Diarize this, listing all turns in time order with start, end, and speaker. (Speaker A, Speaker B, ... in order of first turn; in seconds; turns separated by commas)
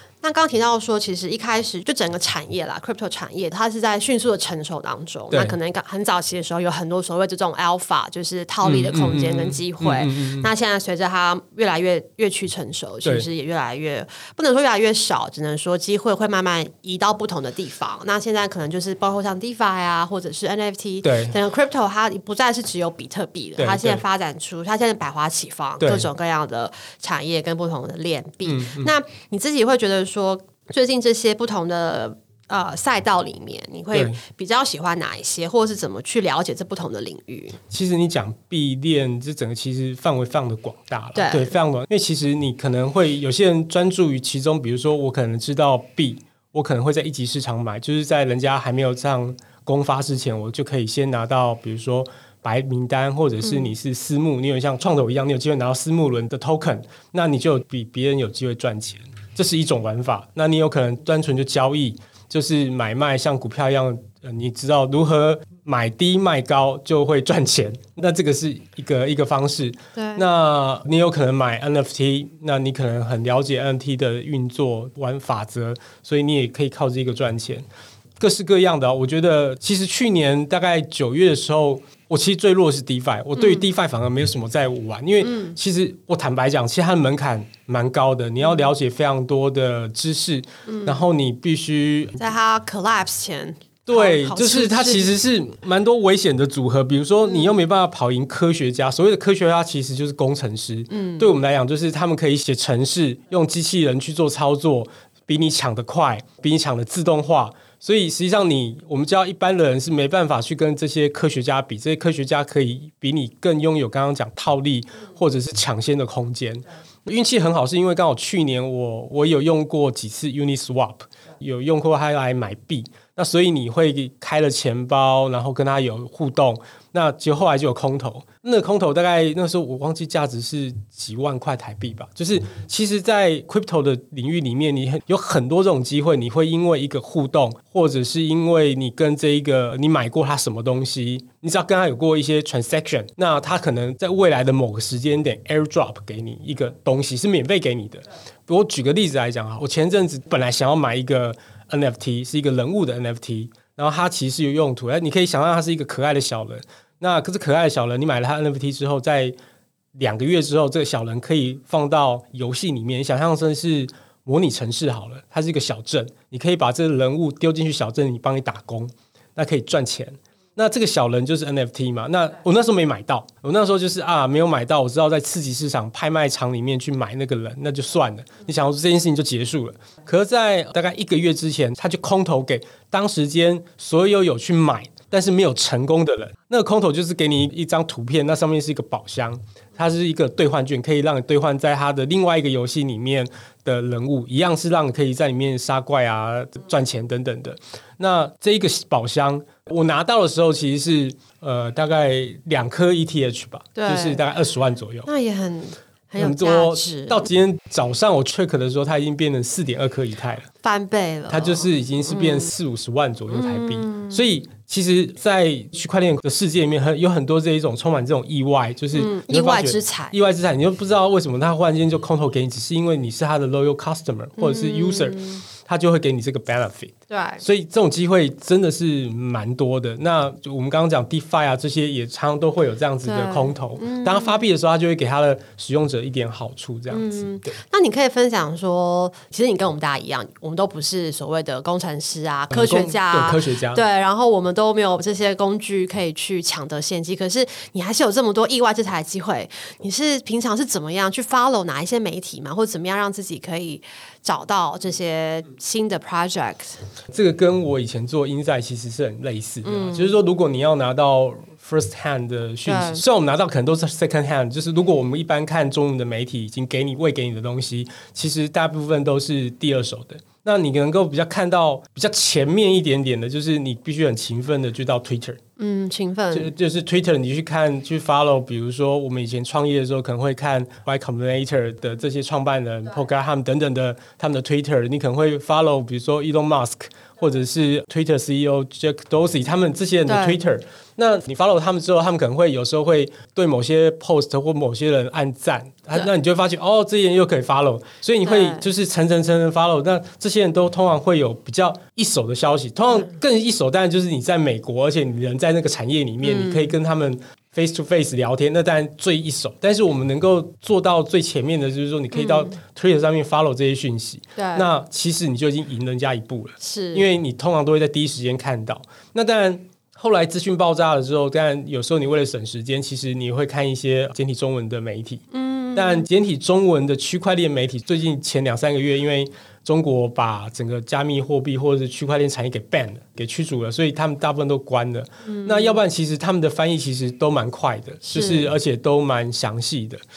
Speaker A: 0.2-37.6, Speaker B: 8.6-10.5, Speaker B: 21.0-21.4, Speaker B: 23.6-24.0, Speaker B: 25.8-26.1, Speaker B: 28.4-28.9, Speaker B: 33.9-34.2, Speaker B: 37.7-77.7, Speaker A: 41.1-41.6, Speaker A: 53.4-53.7, Speaker A: 70.0-70.2, Speaker B: 78.2-92.2, Speaker A: 83.4-83.7, Speaker A: 85.2-85.6, Speaker A: 88.4-88.7, Speaker A: 90.7-91.0, Speaker A: 92.2-95.1, Speaker B: 93.9-159.3, Speaker A: 97.3-97.5, Speaker A: 100.9-101.3, Speaker B: 160.0-205.1, Speaker A: 203.8-204.2, Speaker A: 205.1-207.3, Speaker B: 206.2-210.5, Speaker A: 210.6-212.5, Speaker B: 211.3-237.5, Speaker A: 213.3-214.2, Speaker A: 218.9-220.1, Speaker A: 224.4-225.4, Speaker A: 227.1-227.4, Speaker A: 233.0-234.4, Speaker A: 236.9-256.8, Speaker B: 242.5-243.8, Speaker B: 257.1-275.4, Speaker A: 259.6-260.1, Speaker A: 262.6-263.0, Speaker A: 275.6-276.5, Speaker B: 276.3-325.2, Speaker A: 290.1-290.4, Speaker A: 298.2-298.6, Speaker A: 306.2-306.7, Speaker A: 312.1-312.6, Speaker A: 314.4-314.7, Speaker A: 316.6-317.1, Speaker A: 325.3-326.1, Speaker B: 325.8-340.0, Speaker A: 335.2-335.8, Speaker A: 338.1-338.5